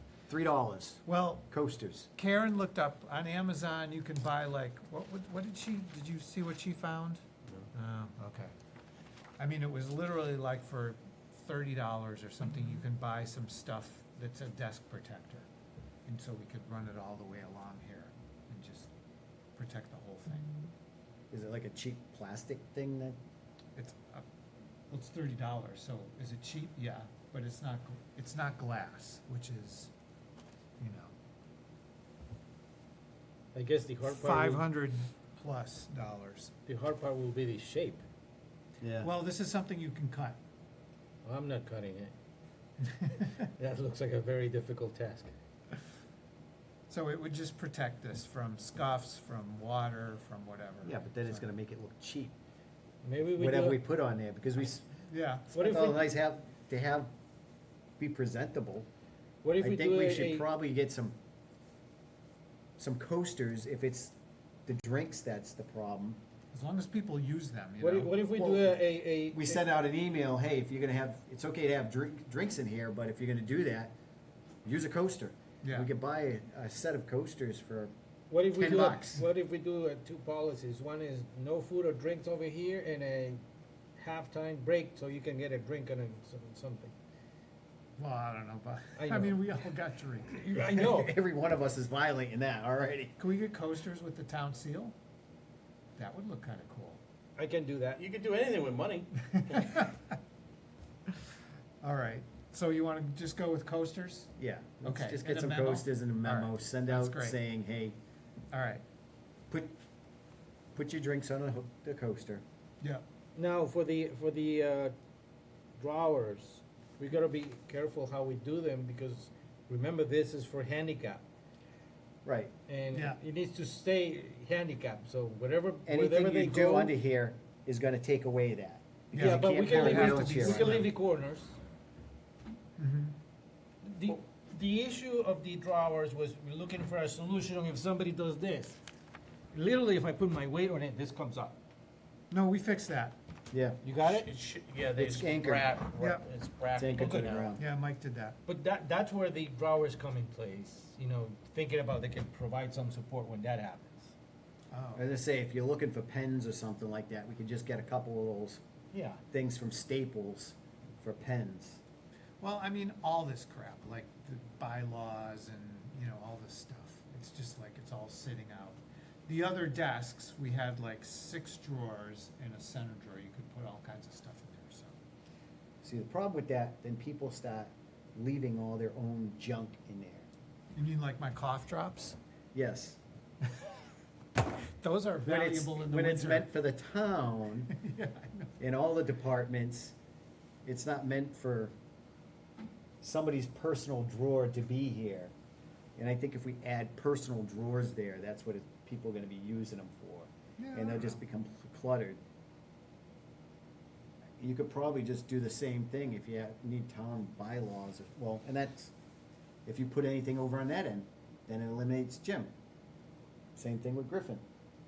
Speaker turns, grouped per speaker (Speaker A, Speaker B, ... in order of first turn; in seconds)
Speaker A: 0.3-2.1, 21.3-23.2, 38.8-39.1, 50.8-52.3, 53.4-54.9, 55.6-57.1, 58.0-58.9, 59.6-61.2, 62.8-64.1, 64.7-66.2, 68.4-68.8, 69.3-73.9, 74.6-77.9, 78.6-79.0, 90.5-93.1, 104.4-108.0, 110.7-112.4, 122.2-122.5, 125.8-130.8, 143.5-143.8, 144.9-145.7, 146.7-147.6, 154.9-158.6, 159.3-161.8, 175.8-180.3, 182.5-183.0, 185.2-187.7, 188.6-189.9, 190.7-191.7, 193.0-195.3, 195.9-202.2, 204.4-208.9, 209.7-212.5, 213.6-214.4
Speaker B: 1.1-1.5, 2.1-8.5, 9.4-15.5, 16.1-18.9, 19.6-20.5, 23.8-24.2, 24.9-29.9, 30.8-31.1, 34.0-36.5, 39.0-40.4, 42.9-43.3, 46.9-51.5, 55.1-55.5, 66.5-68.4, 75.6-75.9, 78.6-79.2, 88.0-90.3, 93.2-95.0, 96.0-97.0, 99.3-100.0, 101.8-104.3, 104.8-107.4, 108.5-108.8, 122.9-123.2, 129.1-130.9, 132.8-133.2, 142.3-143.2, 146.0-146.2, 147.5-148.4, 154.7-155.0, 162.4-174.9, 180.7-182.2, 184.8-186.5, 187.7-188.5, 200.6-201.2
Speaker C: 33.5-34.7, 36.6-38.0, 41.2-42.1, 43.1-45.3, 53.0-53.8, 55.5-56.0, 59.4-60.5, 67.8-69.7, 78.3-83.4, 84.0-86.9, 89.0-89.4, 90.3-91.1, 97.4-98.0, 113.3-114.9, 115.8-121.2, 122.7-126.9, 129.1-131.6, 133.8-138.8, 139.5-141.6, 143.8-144.3, 147.0-147.4, 148.4-154.1, 158.9-159.2
Speaker D: 98.0-99.6, 144.0-147.6